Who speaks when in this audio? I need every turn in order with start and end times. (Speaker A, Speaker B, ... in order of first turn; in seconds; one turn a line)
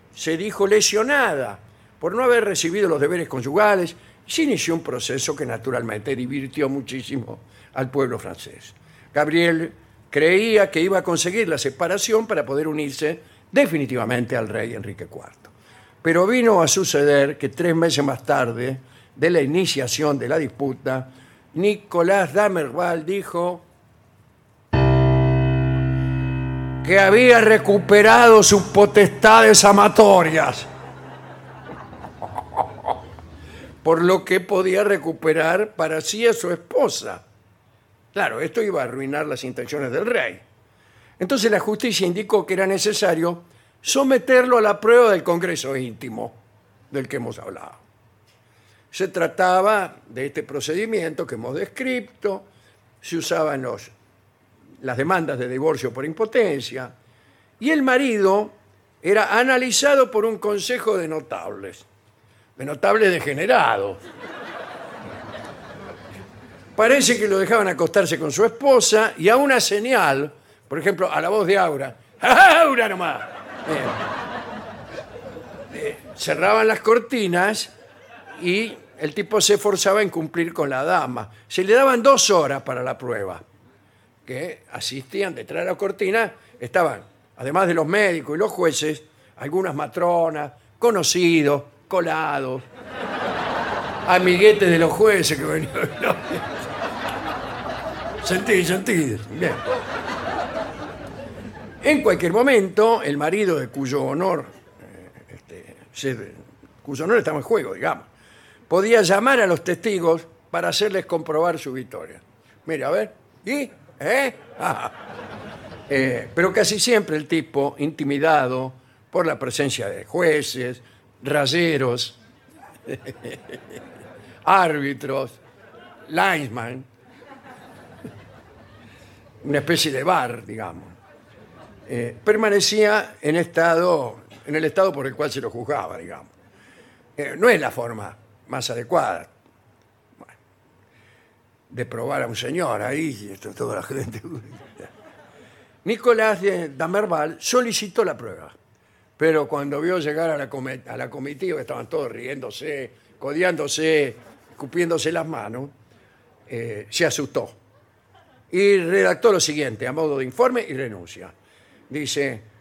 Speaker A: 0.1-15.5
Speaker A: 16.0-23.6
Speaker A: 26.8-30.7
Speaker A: 33.8-37.2
Speaker A: 38.1-40.4
Speaker A: 41.2-46.4
Speaker A: 46.9-47.8
Speaker A: 48.9-52.5
Speaker A: 53.0-53.9
Speaker A: 54.8-56.9
Speaker A: 57.6-61.9
Speaker A: 62.6-64.0
Speaker A: 66.8-74.0
Speaker A: 75.7-77.7
Speaker A: 78.4-83.4
Speaker A: 84.3-92.7
Speaker A: 94.0-96.6
Speaker A: 98.2-99.6
Speaker A: 101.8-108.1
Speaker A: 108.7-115.0
Speaker A: 115.9-122.2
Speaker A: 122.9-123.8
Speaker A: 124.4-125.4
Speaker A: 126.1-126.9
Speaker A: 129.4-130.9
Speaker A: 131.9-136.3
Speaker A: 137.2-139.3
Speaker A: 141.7-144.9
Speaker A: 145.8-148.6
Speaker A: 149.2-155.7
Speaker A: 156.5-157.6
Speaker A: 158.5-161.3
Speaker A: 161.9-162.4